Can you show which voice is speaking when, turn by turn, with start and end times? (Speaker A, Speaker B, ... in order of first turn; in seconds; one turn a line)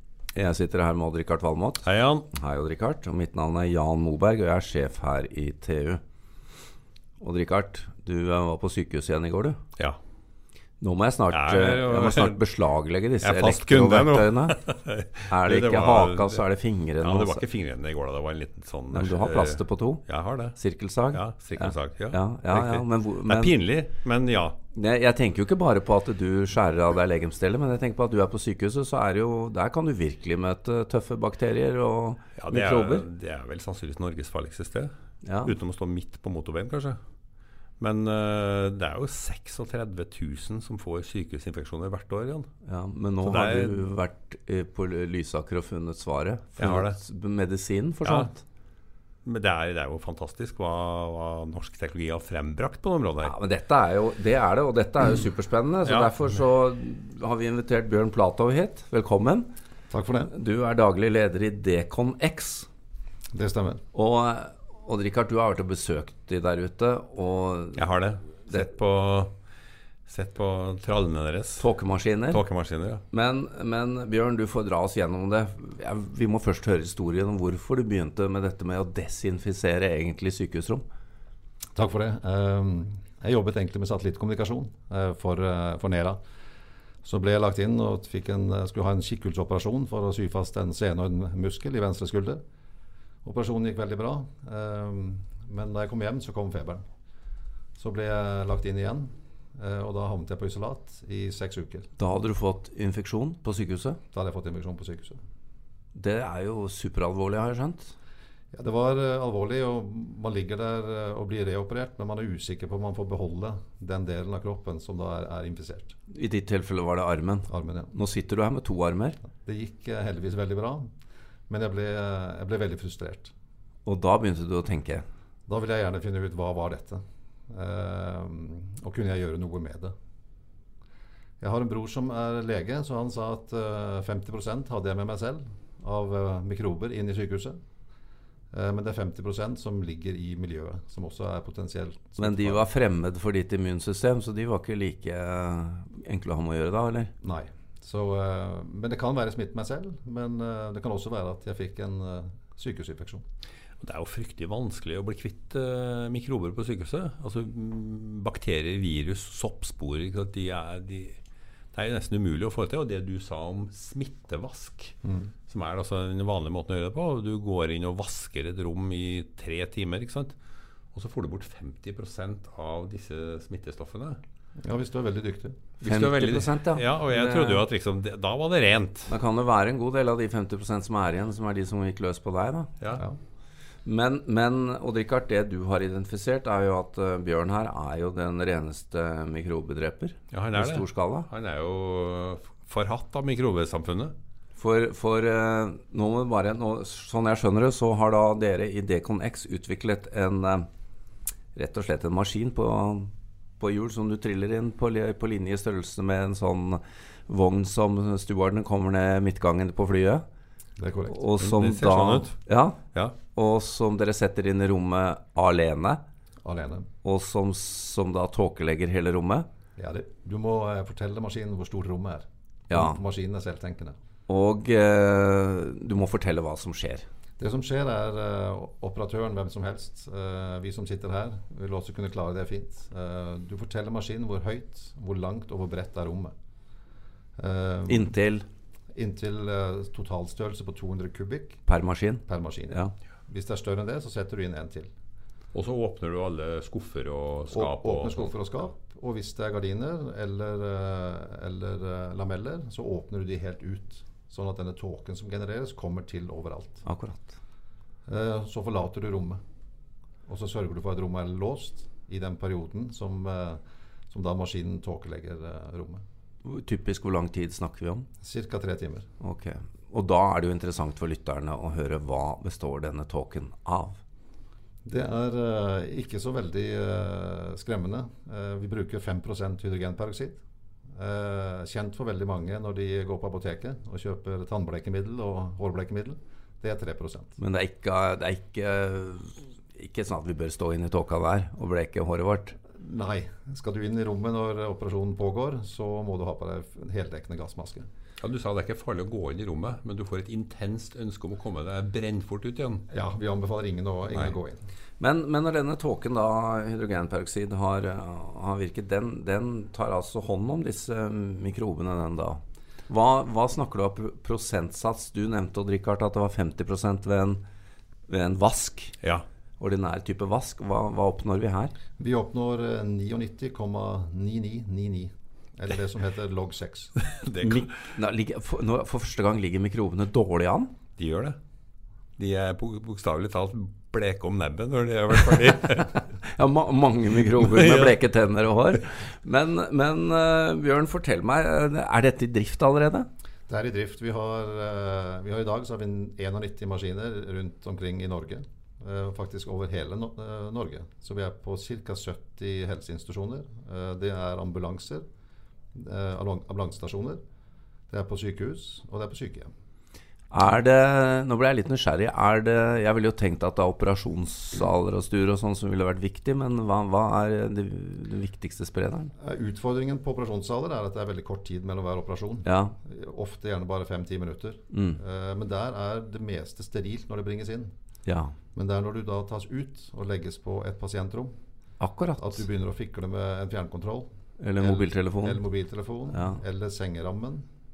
Speaker A: 0.3-6.0
Speaker B: 1.8-2.3
Speaker A: 7.2-9.6
Speaker A: 10.8-14.6
Speaker B: 11.3-12.4
Speaker B: 13.2-16.4
Speaker A: 15.3-17.4
Speaker B: 17.0-20.6
Speaker A: 18.9-20.0
Speaker A: 20.6-23.6
Speaker B: 21.1-24.6
Speaker A: 24.7-33.1
Speaker B: 32.4-34.9
Speaker A: 35.2-35.5
Speaker B: 35.4-37.0
Speaker B: 37.8-42.5
Speaker A: 42.7-48.4
Speaker B: 43.2-43.9
Speaker B: 46.6-47.0
Speaker B: 48.0-48.3
Speaker B: 49.2-53.4
Speaker A: 53.2-59.5
Speaker B: 55.9-56.1
Speaker C: 59.9-60.3
Speaker A: 60.3-62.7
Speaker C: 63.3-63.8
Speaker A: 63.9-67.8
Speaker B: 67.8-69.3
Speaker B: 70.1-71.7
Speaker A: 71.6-72.5
Speaker B: 72.3-73.0
Speaker A: 73.1-80.8
Speaker C: 81.8-86.2
Speaker C: 87.0-92.4
Speaker C: 93.2-96.8
Speaker C: 97.8-101.9
Speaker A: 102.0-104.0
Speaker C: 104.1-105.2
Speaker A: 106.0-107.9
Speaker C: 108.5-116.0
Speaker A: 116.1-119.2
Speaker C: 117.5-117.9
Speaker C: 119.4-120.9
Speaker C: 121.5-123.3
Speaker A: 123.9-125.0
Speaker C: 125.5-129.9
Speaker C: 131.4-137.6
Speaker C: 138.5-142.7
Speaker A: 142.2-147.1
Speaker C: 147.2-153.2
Speaker B: 153.8-161.2
Speaker B: 161.7-164.9
Speaker C: 165.0-165.3
Speaker B: 165.5-170.4
Speaker B: 170.9-174.2
Speaker C: 174.6-175.6
Speaker B: 175.8-179.1
Speaker A: 175.8-177.7
Speaker A: 179.1-182.7
Speaker A: 183.8-191.3
Speaker B: 190.3-194.1
Speaker A: 194.6-200.7
Speaker A: 201.6-210.2
Speaker C: 210.8-211.2
Speaker A: 211.1-216.0
Speaker B: 211.4-212.4
Speaker C: 216.4-216.9
Speaker A: 217.0-219.5
Speaker C: 219.8-224.0
Speaker A: 222.7-223.0
Speaker A: 224.3-227.1
Speaker C: 227.4-236.3
Speaker C: 237.4-238.1
Speaker A: 237.9-238.5
Speaker C: 238.9-241.6
Speaker A: 241.7-242.9
Speaker C: 242.3-244.9
Speaker B: 245.5-248.3
Speaker C: 247.5-256.8
Speaker A: 256.9-257.4
Speaker C: 258.1-259.4
Speaker C: 260.3-266.0
Speaker A: 266.4-268.1
Speaker C: 268.2-269.1
Speaker A: 269.2-274.0
Speaker C: 274.9-280.4
Speaker C: 280.9-287.4
Speaker A: 287.4-292.6
Speaker C: 292.7-297.9
Speaker B: 298.2-302.9
Speaker C: 302.9-304.6
Speaker A: 305.0-317.4
Speaker A: 318.1-318.9
Speaker A: 319.6-321.7
Speaker C: 322.0-326.9
Speaker B: 327.2-327.7
Speaker A: 327.4-330.7
Speaker B: 331.0-331.4
Speaker B: 332.2-336.0
Speaker A: 336.1-343.1
Speaker B: 337.3-337.9
Speaker C: 343.5-355.1
Speaker C: 355.7-357.2
Speaker C: 357.9-359.5
Speaker A: 360.3-369.1
Speaker C: 369.2-377.7
Speaker A: 372.4-372.8
Speaker A: 374.7-375.0
Speaker A: 378.1-378.4
Speaker C: 378.6-381.4
Speaker A: 381.8-382.4
Speaker C: 382.2-387.5
Speaker A: 384.4-385.4
Speaker A: 386.1-386.4